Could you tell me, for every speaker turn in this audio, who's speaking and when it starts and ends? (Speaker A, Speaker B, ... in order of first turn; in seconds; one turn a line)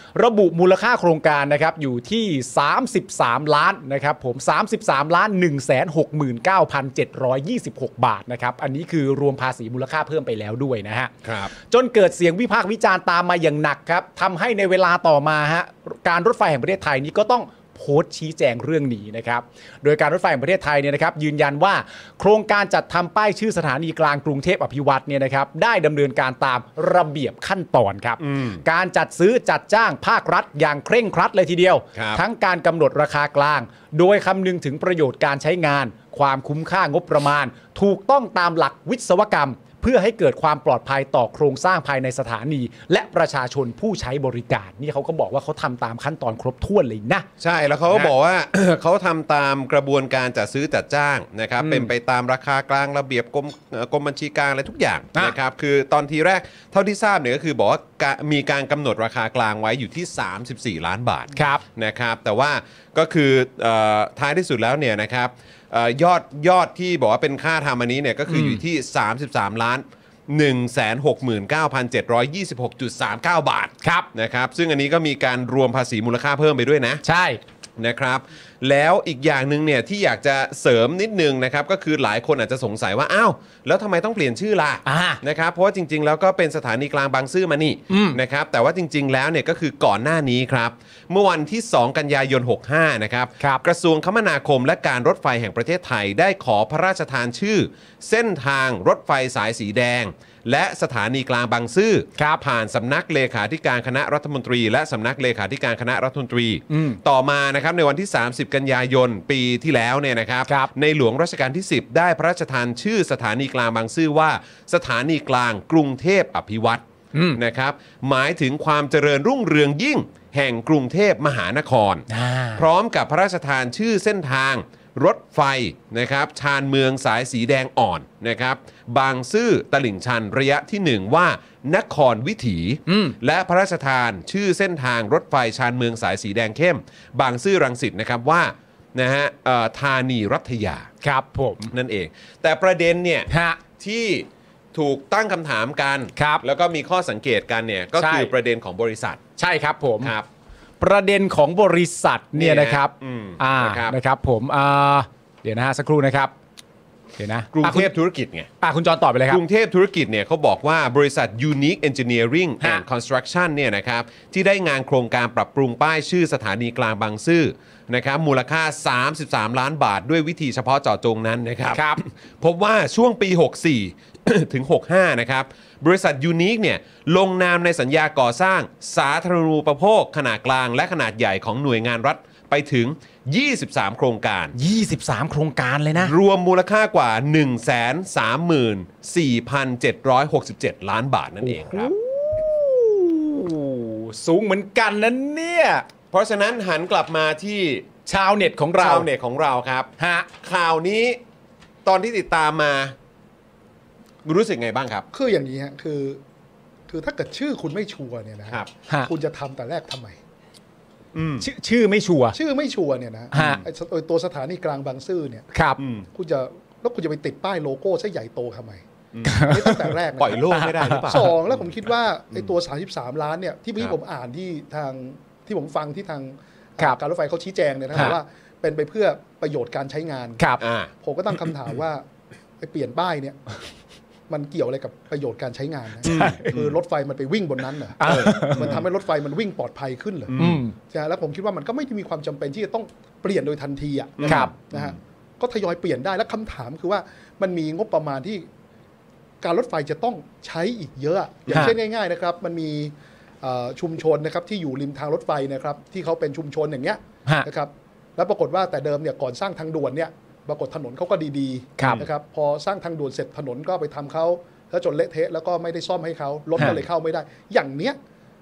Speaker A: 0.1-47.3
Speaker B: 11.2-11.5
Speaker B: 28.2-28.6
Speaker B: 31.9-32.2
Speaker B: 47.4-77.0
Speaker A: 51.6-51.9
Speaker A: 61.3-61.6
Speaker A: 68.3-68.6
Speaker A: 73.8-74.1
Speaker A: 77.0-77.4
Speaker B: 77.8-116.8
Speaker A: 84.8-85.2
Speaker A: 87.9-88.2
Speaker A: 106.7-107.0
Speaker A: 117.1-117.4
Speaker B: 117.3-140.9
Speaker A: 122.1-122.6
Speaker A: 132.9-133.2
Speaker A: 141.0-141.7
Speaker B: 141.7-149.2
Speaker A: 143.3-143.6
Speaker A: 146.2-146.4
Speaker A: 148.0-148.3
Speaker A: 149.4-150.1
Speaker B: 150.0-150.3
Speaker A: 150.8-156.3
Speaker B: 152.3-153.9
Speaker A: 157.2-157.9
Speaker B: 157.5-158.5
Speaker A: 158.6-159.4
Speaker B: 159.3-184.5
Speaker A: 171.7-172.0
Speaker A: 184.6-186.1
Speaker B: 186.0-191.9
Speaker A: 191.4-195.8
Speaker B: 196.1-197.8
Speaker A: 198.1-199.1
Speaker B: 198.8-199.9
Speaker A: 200.0-200.3
Speaker B: 200.4-201.2
Speaker B: 201.8-202.9
Speaker B: 204.2-205.1
Speaker C: 205.1-206.2
Speaker C: 206.9-210.2
Speaker B: 211.1-211.4
Speaker A: 211.4-212.4
Speaker C: 212.3-215.5
Speaker A: 213.3-213.6
Speaker B: 213.3-213.6
Speaker A: 215.5-215.8
Speaker B: 215.8-216.1
Speaker C: 216.1-218.8
Speaker B: 219.1-219.6
Speaker A: 219.2-219.9
Speaker C: 219.5-220.4
Speaker B: 220.2-221.6
Speaker A: 220.5-221.3
Speaker C: 221.0-230.4
Speaker A: 230.4-230.6
Speaker B: 230.6-230.9
Speaker C: 231.0-232.0
Speaker C: 232.6-233.4
Speaker C: 234.3-248.4
Speaker A: 236.0-236.5
Speaker B: 236.0-236.8
Speaker A: 238.0-238.7
Speaker B: 238.0-238.8
Speaker B: 240.3-240.6
Speaker A: 240.4-240.7
Speaker B: 244.2-245.0
Speaker A: 244.3-244.5
Speaker C: 249.4-268.0
Speaker B: 261.8-262.1
Speaker A: 266.6-266.8